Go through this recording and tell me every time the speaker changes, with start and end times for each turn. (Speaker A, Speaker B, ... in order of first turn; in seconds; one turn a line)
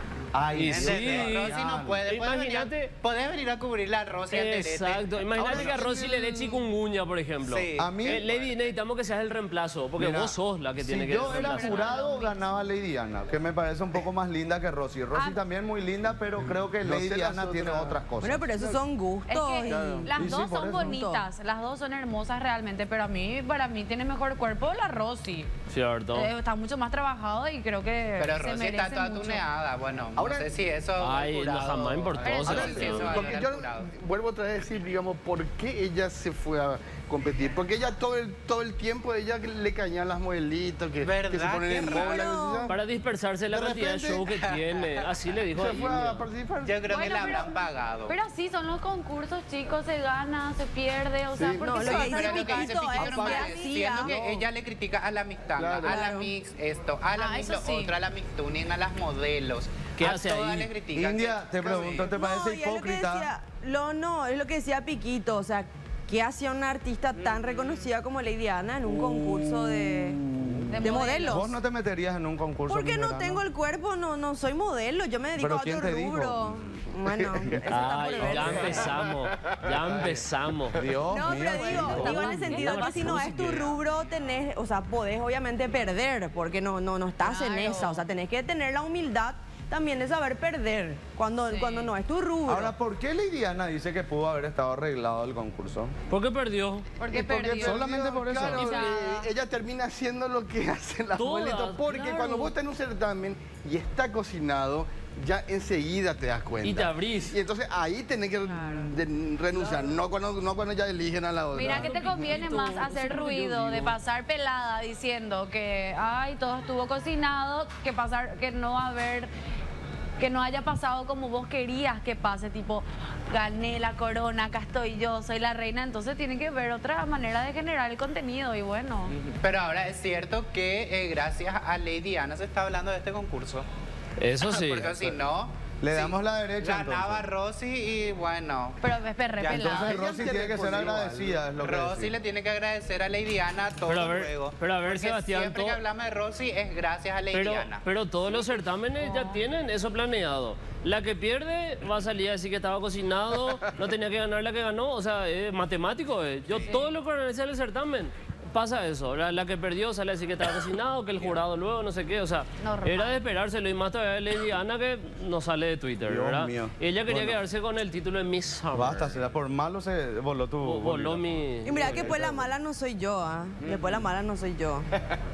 Speaker A: 0.3-2.0
Speaker B: 0.5-2.9
Speaker C: 0.6-5.9
Speaker B: 4.3-11.9
Speaker A: 5.4-6.0
Speaker C: 7.4-8.5
Speaker A: 7.8-8.2
Speaker A: 10.0-18.5
Speaker D: 11.2-12.6
Speaker D: 15.1-15.4
Speaker E: 16.4-18.0
Speaker F: 18.2-21.2
Speaker D: 19.3-25.5
Speaker E: 19.6-20.1
Speaker A: 20.1-20.9
Speaker B: 25.7-26.3
Speaker D: 26.1-29.5
Speaker C: 28.2-33.9
Speaker A: 30.2-30.5
Speaker B: 31.0-33.3
Speaker D: 32.2-33.4
Speaker E: 32.5-42.8
Speaker C: 41.0-42.2
Speaker F: 41.7-42.7
Speaker B: 42.7-46.3
Speaker E: 43.5-44.3
Speaker C: 44.5-45.0
Speaker E: 45.5-47.1
Speaker C: 46.7-48.2
Speaker D: 46.9-52.5
Speaker E: 51.3-52.1
Speaker F: 51.6-54.1
Speaker C: 51.8-62.1
Speaker E: 52.8-54.5
Speaker E: 55.6-56.1
Speaker F: 55.8-56.3
Speaker D: 57.1-58.0
Speaker B: 60.0-60.7
Speaker A: 60.9-63.3
Speaker F: 62.0-70.2
Speaker C: 67.3-67.7
Speaker A: 70.2-73.4
Speaker D: 70.7-71.5
Speaker F: 70.8-71.5
Speaker F: 72.7-78.9
Speaker A: 75.4-76.5
Speaker B: 77.7-80.9
Speaker A: 78.2-79.0
Speaker A: 80.8-82.5
Speaker F: 81.1-92.8
Speaker D: 81.5-83.2
Speaker B: 81.7-83.8
Speaker D: 87.2-88.0
Speaker D: 91.5-91.9
Speaker A: 92.5-95.9
Speaker B: 96.1-96.9
Speaker D: 97.0-97.9
Speaker A: 97.1-98.8
Speaker E: 97.6-112.4
Speaker D: 98.5-99.3
Speaker B: 101.2-102.5
Speaker B: 106.6-107.4
Speaker D: 108.5-108.8
Speaker D: 111.5-119.3
Speaker B: 111.6-114.0
Speaker D: 120.2-129.1
Speaker C: 129.2-133.7
Speaker B: 134.2-135.1
Speaker C: 134.4-138.8
Speaker A: 135.8-137.3
Speaker D: 138.8-140.0
Speaker C: 139.4-140.0
Speaker A: 139.5-142.1
Speaker E: 139.9-141.5
Speaker C: 141.6-147.8
Speaker B: 143.9-145.8
Speaker B: 147.3-169.2
Speaker D: 149.0-149.4
Speaker D: 162.6-163.2
Speaker A: 166.1-167.4
Speaker A: 168.7-172.5
Speaker B: 170.6-172.1
Speaker F: 171.7-174.9